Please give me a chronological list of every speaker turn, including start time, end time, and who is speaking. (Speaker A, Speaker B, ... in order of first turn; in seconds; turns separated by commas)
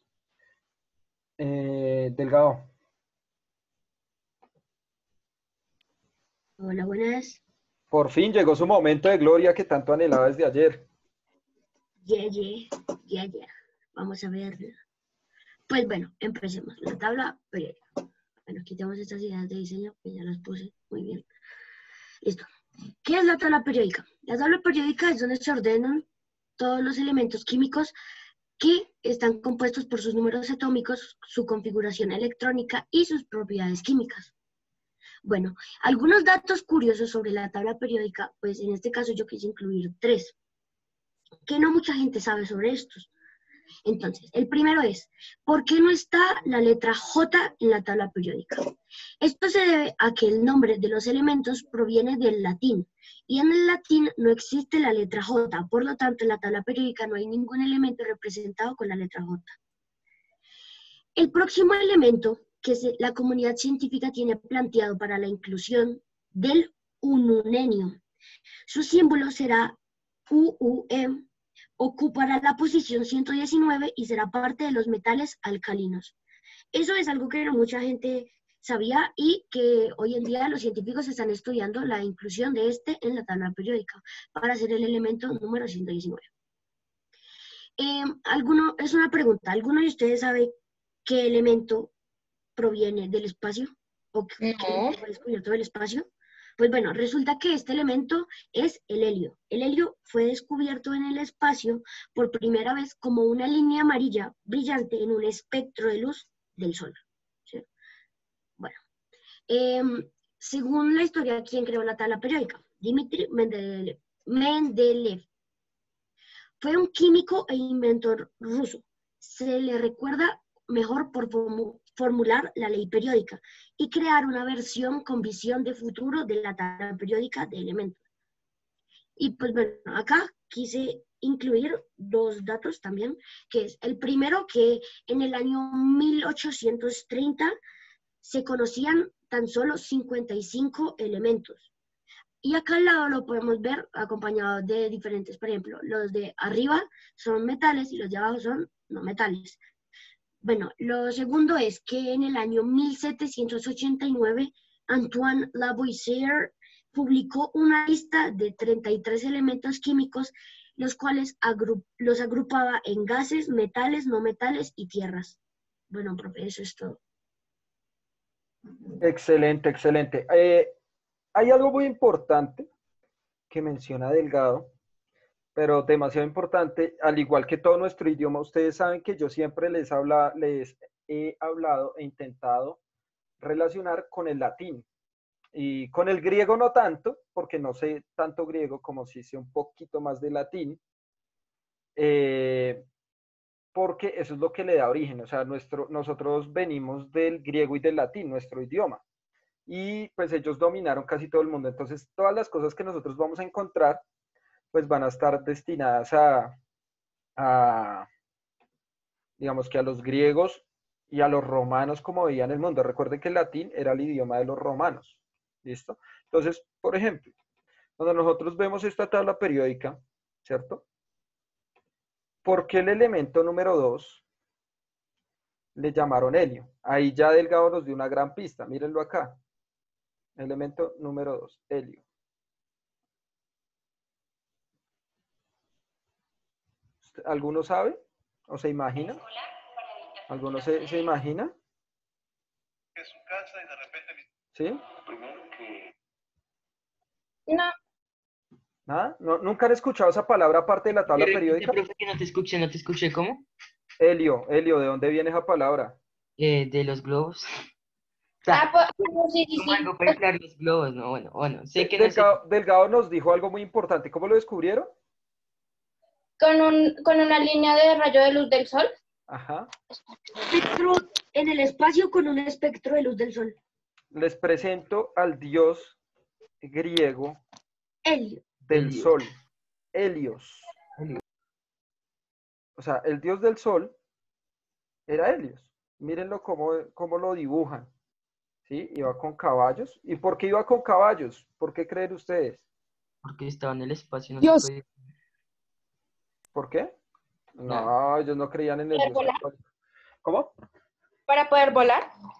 Speaker A: 1.4-2.7, Speaker B: 6.6-7.4, Speaker A: 7.9-10.9, Speaker B: 12.0-14.8, Speaker B: 15.7-17.8, Speaker B: 18.5-21.3, Speaker B: 23.0-26.1, Speaker B: 26.6-27.9, Speaker B: 28.6-34.3, Speaker B: 35.2-40.3, Speaker B: 41.5-43.1, Speaker B: 43.9-48.6, Speaker B: 49.2-59.6, Speaker B: 61.2-68.0, Speaker B: 68.7-69.8, Speaker B: 70.3-71.2, Speaker B: 71.8-76.2, Speaker B: 76.7-86.3, Speaker B: 87.8-90.5, Speaker B: 91.1-91.9, Speaker B: 92.6-96.1, Speaker C: 94.6-94.9, Speaker B: 96.6-107.7, Speaker B: 109.5-115.2, Speaker B: 116.6-128.0, Speaker B: 129.2-137.6, Speaker B: 138.2-141.7, Speaker B: 142.4-149.6, Speaker B: 150.4-165.4, Speaker B: 165.9-167.0, Speaker A: 169.0-170.8, Speaker A: 171.3-172.7, Speaker A: 173.5-174.7, Speaker A: 175.6-182.8, Speaker A: 183.4-184.9, Speaker A: 185.5-190.8, Speaker A: 192.0-192.9, Speaker A: 193.7-199.0, Speaker A: 199.7-204.0, Speaker A: 204.7-206.6, Speaker A: 207.4-208.1, Speaker A: 209.4-217.3, Speaker A: 218.0-220.8, Speaker A: 222.4-224.2, Speaker A: 225.8-229.4, Speaker A: 230.4-232.0, Speaker A: 237.1-239.2, Speaker A: 240.3-241.5, Speaker A: 244.5-244.8, Speaker C: 247.5-247.7, Speaker A: 248.9-251.8, Speaker D: 251.1-253.4, Speaker A: 254.0-256.0, Speaker D: 256.4-257.4, Speaker D: 258.4-258.7, Speaker C: 258.5-260.1, Speaker D: 259.6-262.4, Speaker A: 261.8-264.9, Speaker C: 266.4-268.9, Speaker A: 269.3-269.7, Speaker B: 270.5-273.6, Speaker A: 274.1-276.0, Speaker A: 276.6-277.4, Speaker B: 278.1-278.4, Speaker A: 278.7-279.3, Speaker D: 278.7-279.1, Speaker A: 279.9-280.7, Speaker D: 281.0-281.2, Speaker A: 282.8-283.9, Speaker A: 285.1-287.9, Speaker A: 288.7-292.6, Speaker D: 293.2-294.9, Speaker A: 296.5-296.9, Speaker A: 297.6-299.6, Speaker D: 297.7-297.9, Speaker C: 298.9-299.4, Speaker A: 300.2-300.5, Speaker C: 301.3-302.1